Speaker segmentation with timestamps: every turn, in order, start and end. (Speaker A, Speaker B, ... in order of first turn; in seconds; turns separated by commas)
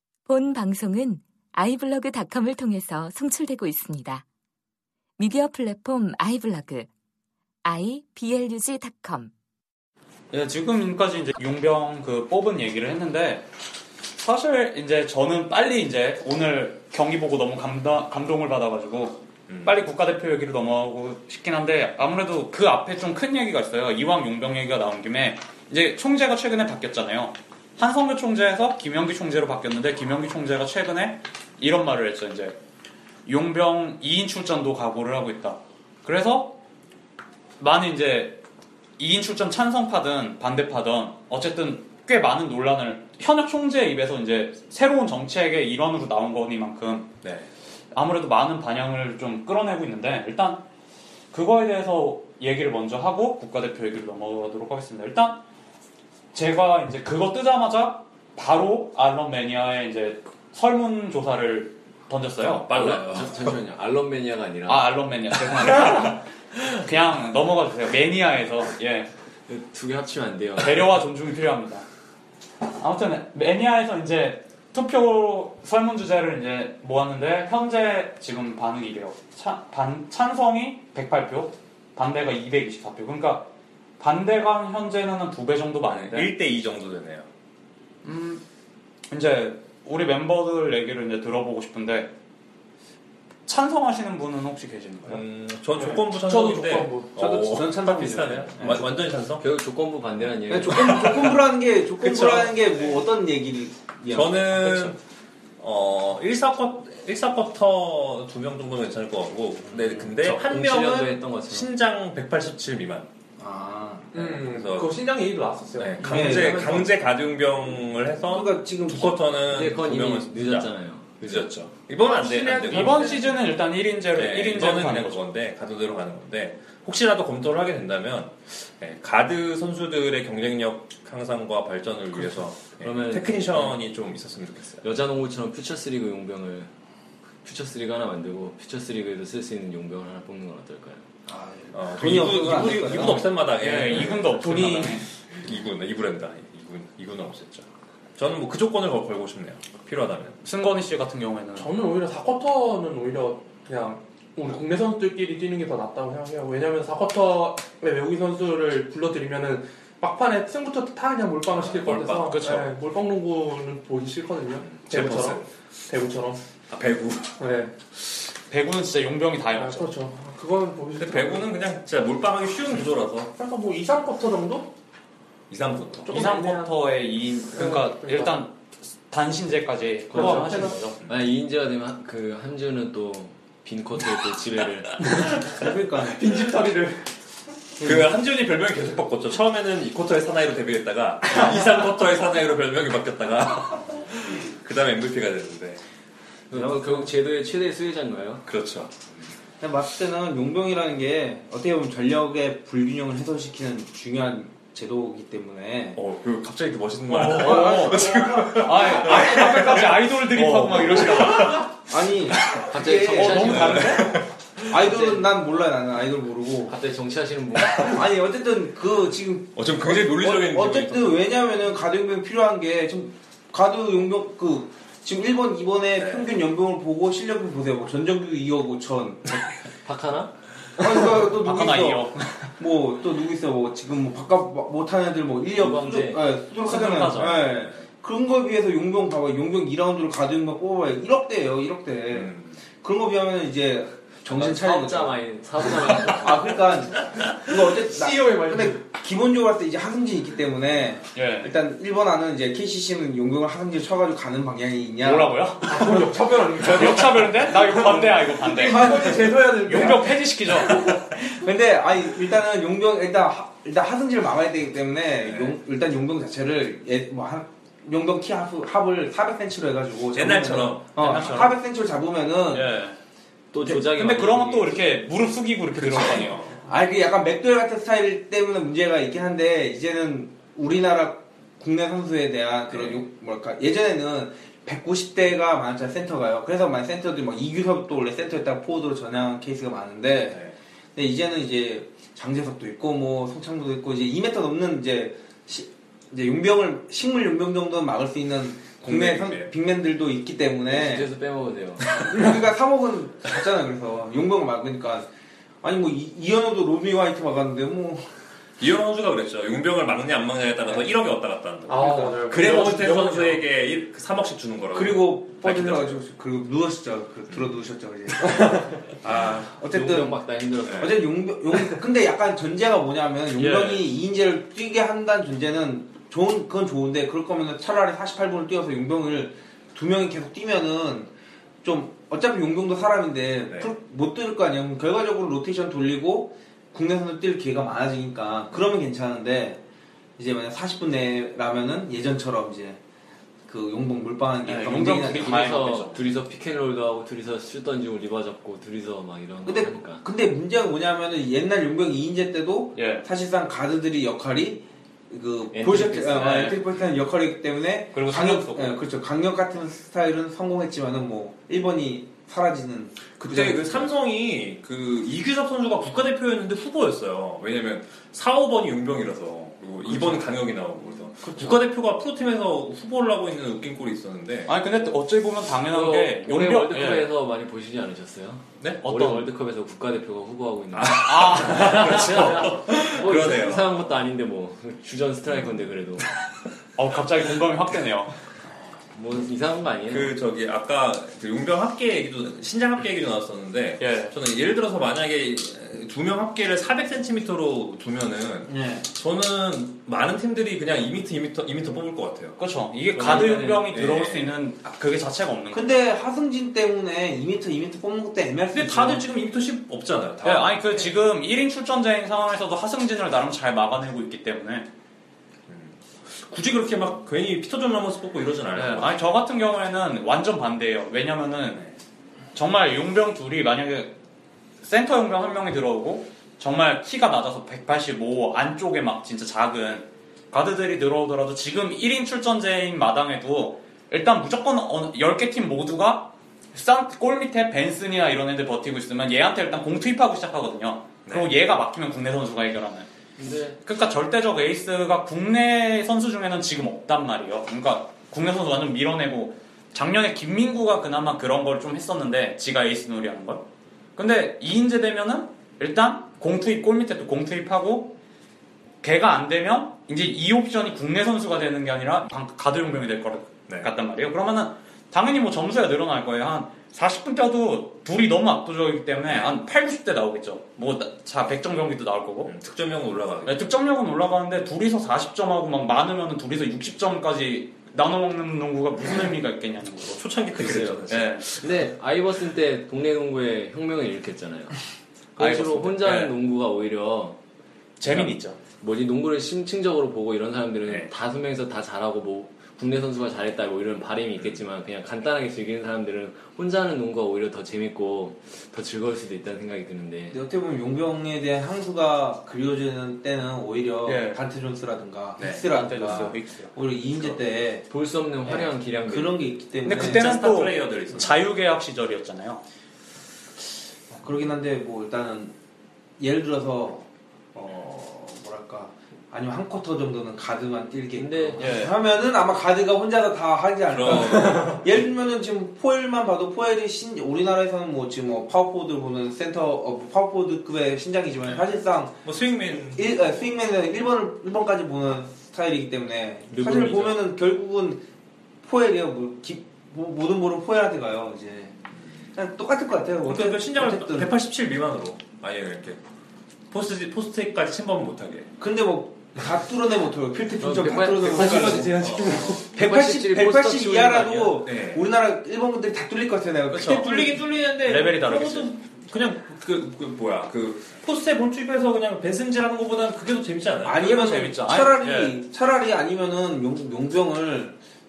Speaker A: 0.3-4.2, Speaker A: 5.2-6.9, Speaker A: 7.7-9.3, Speaker B: 10.3-13.5, Speaker B: 14.2-32.6, Speaker C: 19.5-19.7, Speaker B: 33.3-36.5, Speaker B: 37.6-38.4, Speaker B: 39.0-47.1, Speaker C: 47.2-47.5, Speaker B: 47.9-50.6, Speaker B: 51.3-55.4, Speaker B: 56.3-63.0, Speaker C: 62.7-63.6, Speaker D: 62.7-64.9, Speaker B: 64.7-69.1, Speaker D: 69.5-71.0, Speaker B: 70.6-71.8, Speaker B: 72.8-83.5, Speaker B: 84.0-86.3, Speaker C: 85.9-87.3, Speaker B: 88.0-88.4, Speaker B: 89.1-92.1, Speaker B: 93.5-95.2, Speaker C: 95.1-99.5, Speaker E: 96.0-97.2, Speaker F: 97.2-98.9, Speaker D: 99.4-101.2, Speaker F: 100.5-104.7, Speaker C: 100.7-101.4, Speaker C: 102.0-102.5, Speaker C: 104.1-105.0, Speaker B: 104.6-104.9, Speaker C: 105.6-113.1, Speaker D: 110.2-111.7, Speaker F: 113.4-114.4, Speaker E: 114.1-116.5, Speaker C: 114.4-115.0, Speaker C: 115.8-123.2, Speaker F: 116.0-117.0, Speaker F: 118.3-119.2, Speaker D: 119.5-121.5, Speaker E: 122.0-123.3, Speaker B: 122.7-125.2, Speaker C: 124.2-134.8, Speaker D: 132.2-133.8, Speaker D: 134.8-136.7, Speaker D: 137.4-141.1, Speaker F: 141.3-143.3, Speaker C: 141.7-144.7, Speaker B: 143.6-145.0, Speaker E: 144.4-145.0, Speaker C: 145.4-150.4, Speaker B: 150.4-151.8, Speaker E: 151.6-166.4, Speaker C: 161.5-162.6, Speaker B: 162.2-162.7, Speaker C: 164.7-165.5, Speaker C: 166.7-167.4, Speaker E: 167.4-167.7, Speaker B: 168.5-169.9, Speaker E: 169.6-171.5, Speaker C: 171.0-173.3, Speaker E: 173.4-174.7, Speaker C: 175.5-176.3, Speaker E: 176.0-176.8, Speaker B: 176.1-178.5, Speaker E: 177.5-178.3, Speaker B: 179.1-181.0, Speaker E: 180.1-180.8, Speaker D: 180.1-185.0, Speaker F: 185.5-186.2, Speaker E: 186.0-187.1, Speaker F: 187.8-188.1, Speaker C: 187.8-195.8, Speaker D: 196.5-198.4, Speaker F: 196.6-197.0, Speaker C: 198.5-199.3, Speaker F: 199.6-206.0, Speaker C: 205.9-211.7, Speaker B: 207.1-211.7, Speaker E: 207.3-209.2, Speaker F: 211.9-213.9, Speaker C: 212.3-212.7, Speaker D: 212.7-214.1, Speaker B: 213.0-214.2, Speaker C: 213.4-214.8, Speaker F: 214.7-216.7, Speaker D: 216.7-218.0, Speaker F: 217.8-229.4, Speaker C: 219.6-221.4, Speaker C: 226.0-226.3, Speaker D: 229.8-230.3, Speaker F: 230.8-245.2, Speaker B: 231.1-232.5, Speaker D: 235.6-236.3, Speaker B: 236.6-237.5, Speaker C: 242.1-242.6, Speaker D: 244.3-246.6, Speaker F: 245.9-255.5, Speaker E: 247.9-248.8, Speaker B: 251.2-251.6, Speaker B: 255.0-256.0, Speaker E: 255.6-261.0, Speaker B: 256.6-261.0, Speaker F: 258.5-259.4, Speaker F: 261.1-272.7, Speaker C: 265.2-265.6, Speaker C: 270.1-270.9, Speaker B: 271.0-271.6, Speaker B: 272.5-273.0, Speaker D: 273.5-274.8, Speaker B: 273.6-276.5, Speaker C: 275.8-276.6, Speaker F: 276.6-290.4, Speaker C: 282.7-283.0, Speaker C: 290.3-290.6, Speaker F: 290.9-301.1, Speaker C: 298.9-299.5, Speaker D: 300.7-301.9, Speaker F: 301.9-305.1, Speaker F: 305.6-308.0, Speaker C: 308.6-316.0, Speaker E: 311.7-313.4, Speaker F: 314.7-320.2, Speaker E: 318.4-318.7, Speaker D: 319.7-321.1, Speaker C: 320.7-321.0, Speaker F: 320.8-331.1, Speaker B: 323.4-323.9, Speaker F: 331.6-339.6, Speaker F: 340.2-342.8, Speaker F: 343.5-345.6, Speaker B: 344.4-346.0, Speaker D: 345.1-350.0, Speaker F: 349.4-363.9, Speaker B: 352.8-353.1, Speaker B: 355.6-356.6, Speaker B: 357.9-358.8, Speaker C: 363.2-374.5, Speaker F: 369.9-370.2, Speaker F: 371.2-371.6, Speaker B: 374.5-377.1, Speaker D: 375.7-386.0, Speaker B: 378.8-379.3, Speaker C: 380.8-383.7, Speaker B: 380.8-382.6, Speaker B: 386.8-388.1, Speaker D: 388.9-390.1, Speaker C: 389.9-402.4, Speaker B: 393.8-394.1, Speaker F: 398.5-398.9, Speaker B: 402.4-405.8, Speaker D: 402.9-403.8, Speaker C: 403.0-404.3, Speaker F: 405.5-409.0, Speaker C: 408.5-410.9, Speaker B: 410.2-414.7, Speaker C: 415.5-419.1, Speaker B: 418.5-421.6, Speaker B: 422.4-423.9, Speaker B: 424.6-442.9, Speaker D: 443.2-443.6, Speaker B: 443.6-453.4, Speaker B: 454.0-458.0, Speaker B: 458.8-472.3, Speaker C: 469.1-469.3, Speaker C: 472.3-473.5, Speaker B: 473.2-480.0, Speaker C: 479.9-481.4, Speaker D: 480.4-484.6, Speaker B: 480.9-481.3, Speaker D: 485.2-487.2, Speaker B: 485.2-486.1, Speaker B: 487.8-488.4, Speaker D: 487.9-500.2, Speaker F: 500.1-507.7, Speaker B: 503.9-504.2, Speaker B: 505.2-506.5, Speaker C: 505.2-506.1, Speaker D: 507.7-509.3, Speaker F: 508.3-510.2, Speaker B: 509.6-512.4, Speaker C: 509.7-511.2, Speaker F: 513.9-515.4, Speaker F: 516.0-532.0, Speaker D: 521.0-521.6, Speaker B: 521.4-521.8, Speaker C: 523.7-524.7, Speaker C: 532.0-533.1, Speaker F: 532.7-537.8, Speaker D: 536.3-537.0, Speaker F: 538.4-541.5, Speaker F: 542.1-544.1, Speaker C: 543.1-545.8, Speaker C: 546.5-548.3, Speaker F: 548.4-557.2, Speaker D: 550.4-554.4, Speaker E: 551.1-552.4, Speaker C: 551.2-552.4, Speaker C: 554.5-554.8, Speaker C: 556.5-563.8, Speaker B: 557.6-558.5, Speaker F: 563.6-567.6, Speaker B: 563.8-565.2